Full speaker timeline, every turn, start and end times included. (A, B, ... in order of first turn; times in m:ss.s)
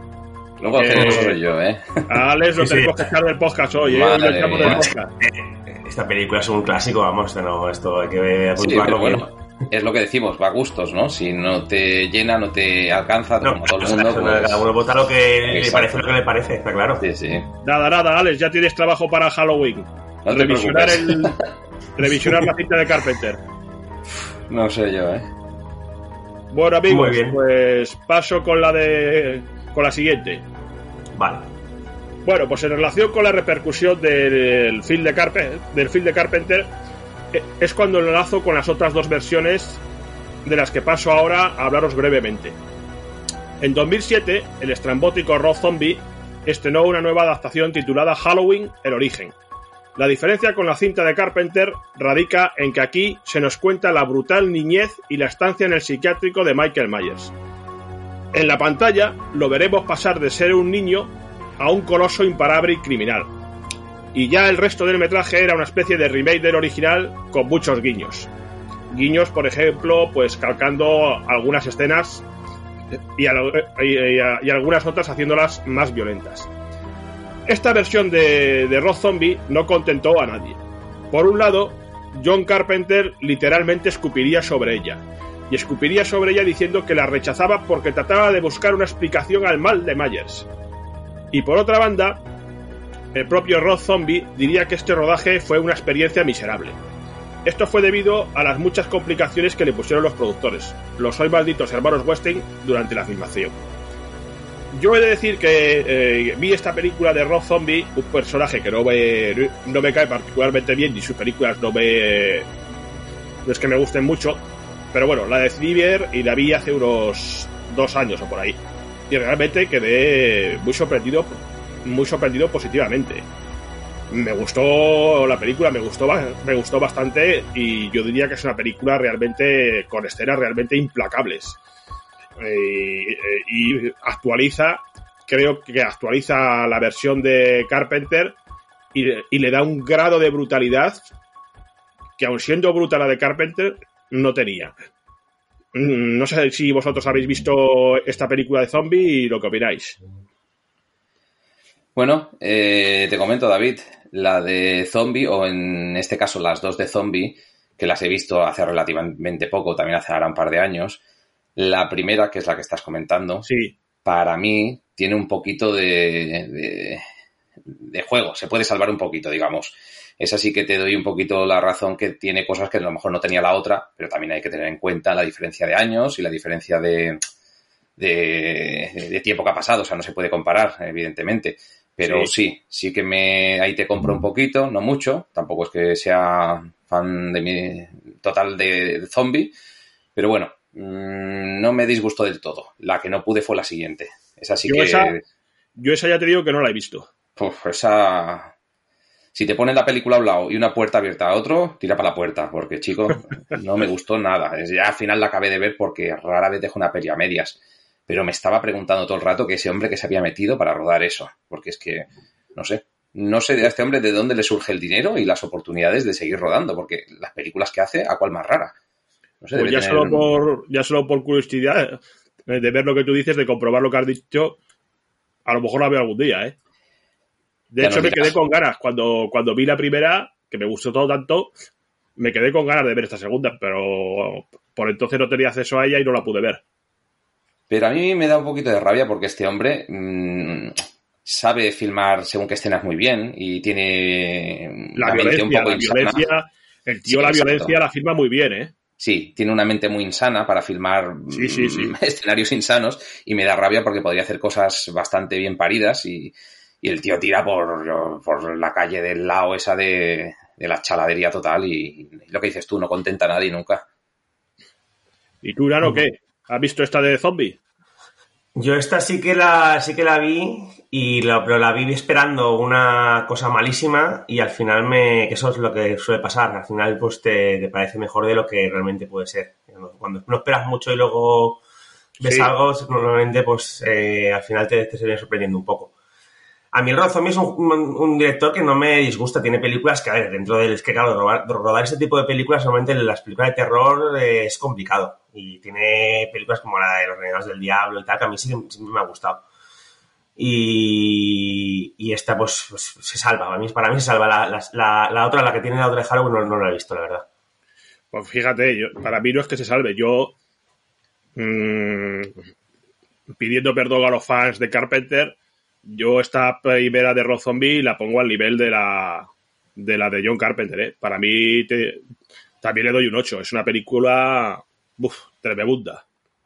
0:00.6-0:02.0 A
0:00.7-0:01.4 B
0:02.1-0:05.1 B
0:02.6-0:03.0 C
0:03.9-0:04.9 A
0:05.2-0:09.3 C
0:08.6-0:14.7 A
0:13.4-0:17.0 C
0:15.4-0:16.1 A
0:17.0-0:17.5 A
0:17.6-0:21.3 B
0:20.2-0:21.4 A
0:22.0-0:23.4 B
0:24.1-0:25.3 A
0:26.5-0:30.4 B
0:26.9-0:27.4 C
0:31.1-0:31.5 C
0:32.2-0:36.7 B
0:37.3-0:39.8 B
0:40.4-0:42.6 B
0:43.6-0:49.3 B
0:50.0-0:57.3 B
0:58.3-1:03.3 B
1:04.1-1:08.3 B
1:08.9-1:12.2 B
1:13.1-1:16.5 B
1:17.5-1:20.6 B
1:21.1-1:30.5 B
1:31.3-1:32.2 B
1:33.1-1:36.8 B
1:37.4-1:43.6 B
1:44.7-1:52.4 B
1:53.4-1:54.4 B
1:54.9-1:58.6 B
1:59.1-2:03.2 B
2:04.1-2:11.6 B
2:12.4-2:18.4 B
2:18.9-2:21.1 B
2:22.2-2:24.7 B
2:25.7-2:30.0 B
2:31.9-2:41.0 A
2:41.6-2:43.5 A
2:43.4-2:43.7 B
2:44.0-2:47.0 A
2:47.7-2:57.2 A
2:58.0-3:09.5 A
3:10.2-3:15.2 A
3:14.7-3:15.1 B
3:15.8-3:17.1 B
3:17.4-3:18.5 A
3:19.3-3:38.7 A
3:39.4-3:40.3 A
3:39.5-3:44.6 B
3:45.4-3:46.5 B
3:47.7-3:51.5 B
3:47.8-3:48.3 A
3:52.2-3:56.6 B
3:57.7-4:06.2 A
4:05.0-4:08.7 B
4:07.1-4:07.8 A
4:09.0-4:23.8 A
4:11.3-4:11.9 B
4:25.4-4:27.6 B
4:28.6-4:41.6 C
4:42.2-4:45.9 C
4:42.2-4:42.5 B
4:46.7-4:59.4 C
5:00.4-5:07.2 C
5:08.1-5:10.3 B
5:11.4-5:12.3 B
5:13.4-5:15.3 B
5:15.8-5:22.0 B
5:22.6-5:26.0 B